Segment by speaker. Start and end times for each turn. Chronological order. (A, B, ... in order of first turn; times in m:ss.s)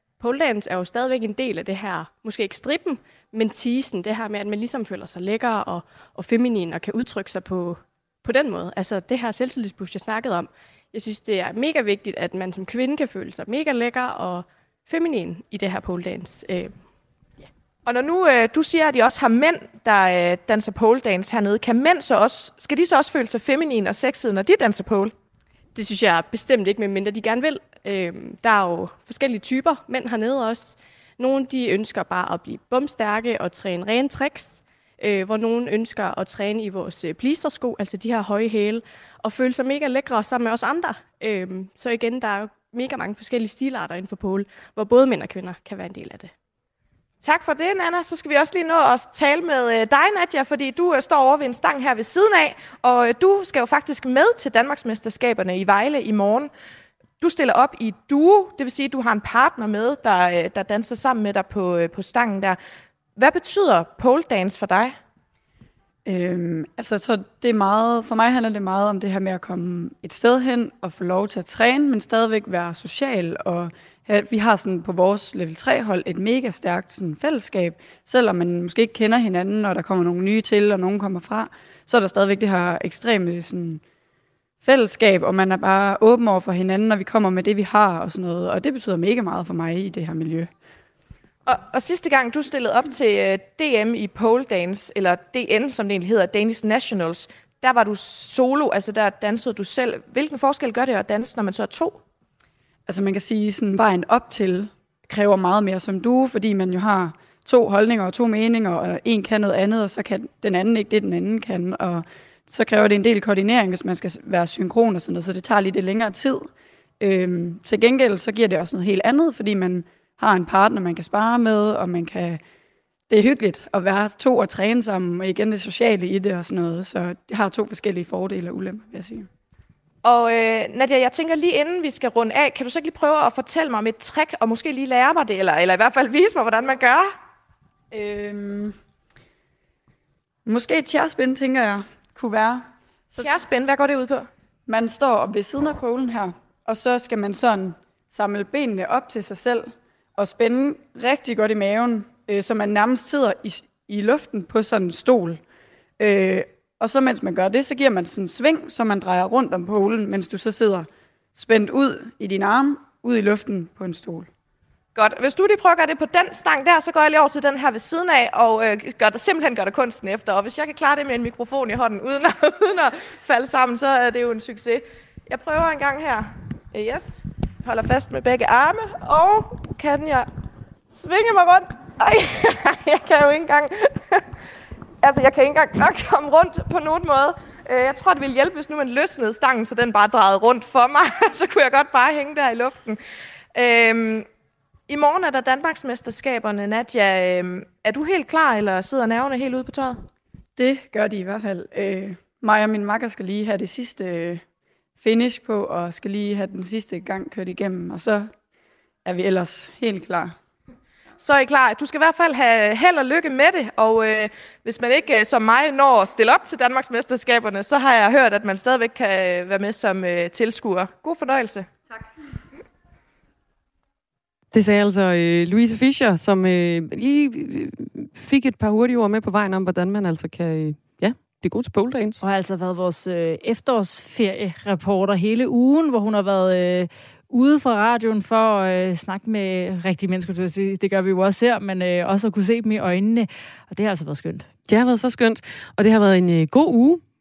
0:00.2-0:16.7 A
0:17.8-0:25.1 B
0:25.7-0:46.3 A
0:47.2-0:56.5 B
0:57.2-1:02.6 B
1:03.2-1:05.0 B
1:06.0-1:23.8 C
1:24.6-1:30.5 C
1:31.4-1:42.0 B
1:42.9-1:56.5 C
1:57.0-2:02.4 C
2:03.1-2:09.3 C
2:10.0-2:17.1 B
2:17.9-2:18.7 C
2:20.4-2:23.3 C
2:23.2-2:24.3 B
2:24.7-2:35.4 C
2:36.0-2:44.3 C
2:44.9-3:00.3 B
3:00.9-3:04.2 B
3:05.0-3:13.0 B
3:13.5-3:14.2 B
3:14.9-3:20.0 B
3:20.6-3:24.4 C
3:25.0-3:28.3 C
3:29.0-3:30.3 C
3:31.2-3:41.7 B
3:44.5-3:52.2 D
3:52.2-4:04.5 E
4:04.7-4:07.0 D